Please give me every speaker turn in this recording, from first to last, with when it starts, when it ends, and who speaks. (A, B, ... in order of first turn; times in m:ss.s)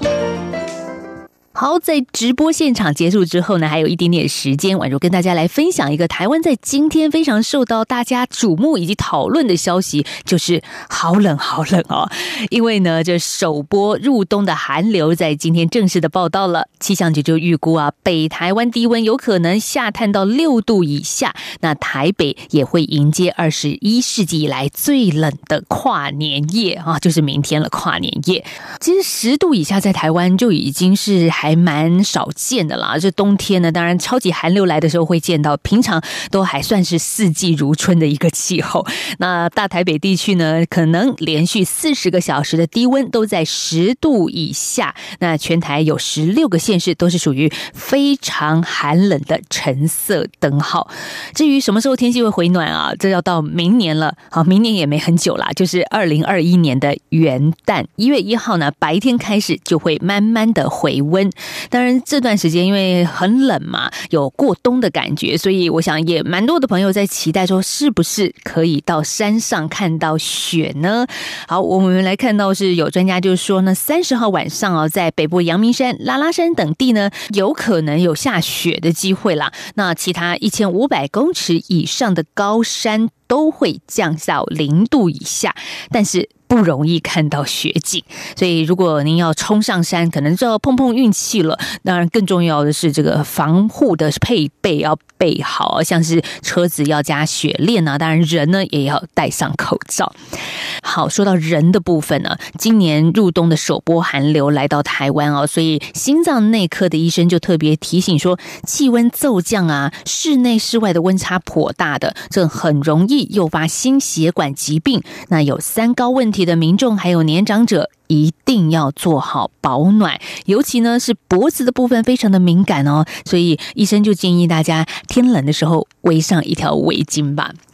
0:01.6-1:40.2 A
1:40.8-2:07.6 A